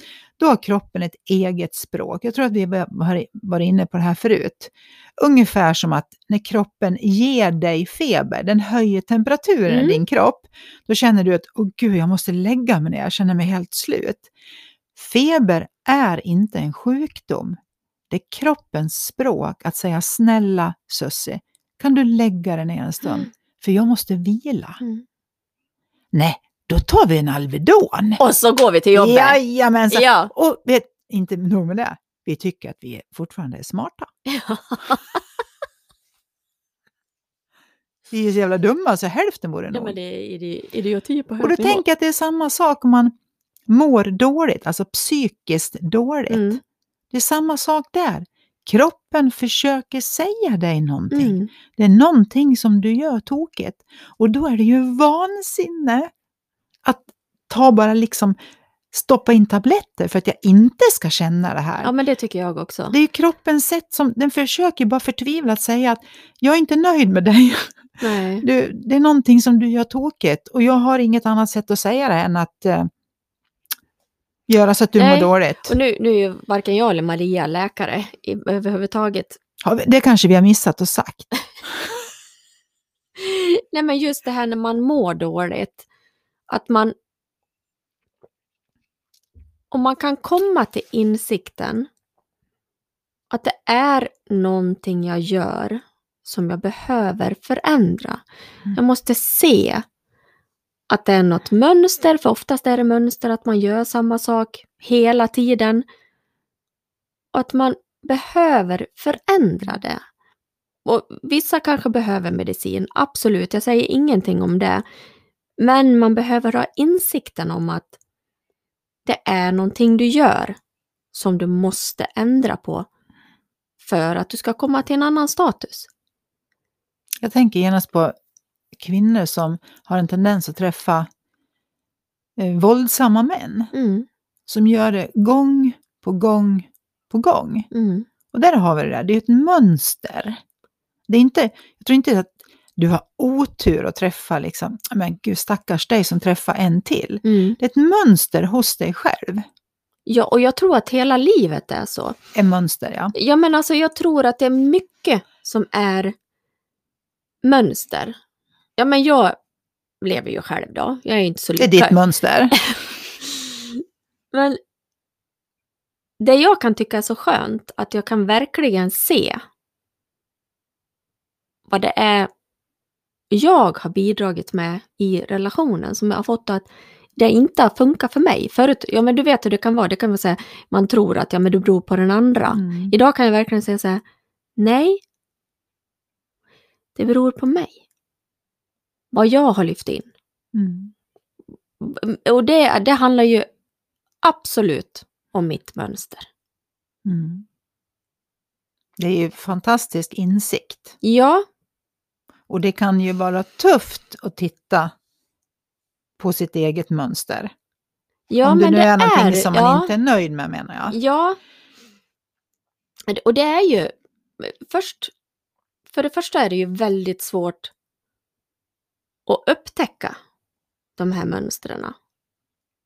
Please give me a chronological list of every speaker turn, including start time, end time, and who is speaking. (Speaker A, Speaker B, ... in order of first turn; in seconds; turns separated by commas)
Speaker A: 0.4-14.3, Speaker B: 9.7-10.0, Speaker A: 14.9-17.6, Speaker A: 18.1-24.8, Speaker A: 26.1-28.2, Speaker B: 28.2-29.4, Speaker A: 28.9-34.1, Speaker B: 29.9-30.3, Speaker B: 34.2-35.2, Speaker A: 38.1-39.9, Speaker B: 39.7-41.8, Speaker A: 41.4-43.1, Speaker A: 43.7-46.6, Speaker B: 46.3-46.6, Speaker A: 47.1-56.1, Speaker B: 51.1-51.5, Speaker A: 56.8-58.4, Speaker A: 58.9-61.9, Speaker B: 61.8-63.0, Speaker A: 62.9-72.9, Speaker B: 68.0-68.5, Speaker A: 74.5-75.7, Speaker B: 75.0-79.4, Speaker A: 79.6-81.9, Speaker B: 83.2-85.8, Speaker B: 86.5-86.9, Speaker B: 89.7-91.9, Speaker B: 93.3-98.2, Speaker B: 98.7-99.8, Speaker B: 100.9-105.8, Speaker B: 107.3-110.0, Speaker B: 110.8-114.8, Speaker B: 115.6-118.0, Speaker B: 119.0-120.6, Speaker B: 121.1-122.9, Speaker B: 123.8-125.9, Speaker A: 127.2-128.1, Speaker A: 128.8-131.1, Speaker A: 132.4-133.7, Speaker B: 133.7-134.1, Speaker A: 134.5-137.7, Speaker B: 137.7-138.1, Speaker A: 138.3-140.4, Speaker A: 141.1-149.4, Speaker B: 147.2-147.6, Speaker B: 150.1-152.2, Speaker A: 152.3-153.1, Speaker B: 153.1-156.1, Speaker B: 157.4-158.2, Speaker B: 158.8-159.3, Speaker B: 160.0-162.0, Speaker A: 161.6-162.5, Speaker B: 162.5-164.6, Speaker B: 166.2-169.4, Speaker B: 171.7-172.3, Speaker B: 173.3-184.0, Speaker A: 182.5-182.9, Speaker B: 184.6-185.0, Speaker B: 186.9-187.8, Speaker B: 189.1-190.1, Speaker A: 190.5-190.9, Speaker B: 191.8-193.5, Speaker B: 194.2-196.3, Speaker A: 197.0-197.4, Speaker A: 199.0-200.9, Speaker B: 201.0-201.4, Speaker A: 202.5-204.9, Speaker A: 206.2-207.5, Speaker B: 208.3-209.9, Speaker A: 208.4-211.0, Speaker B: 210.9-211.4, Speaker B: 213.1-215.1, Speaker B: 215.9-217.7, Speaker B: 219.3-220.2, Speaker B: 221.0-221.9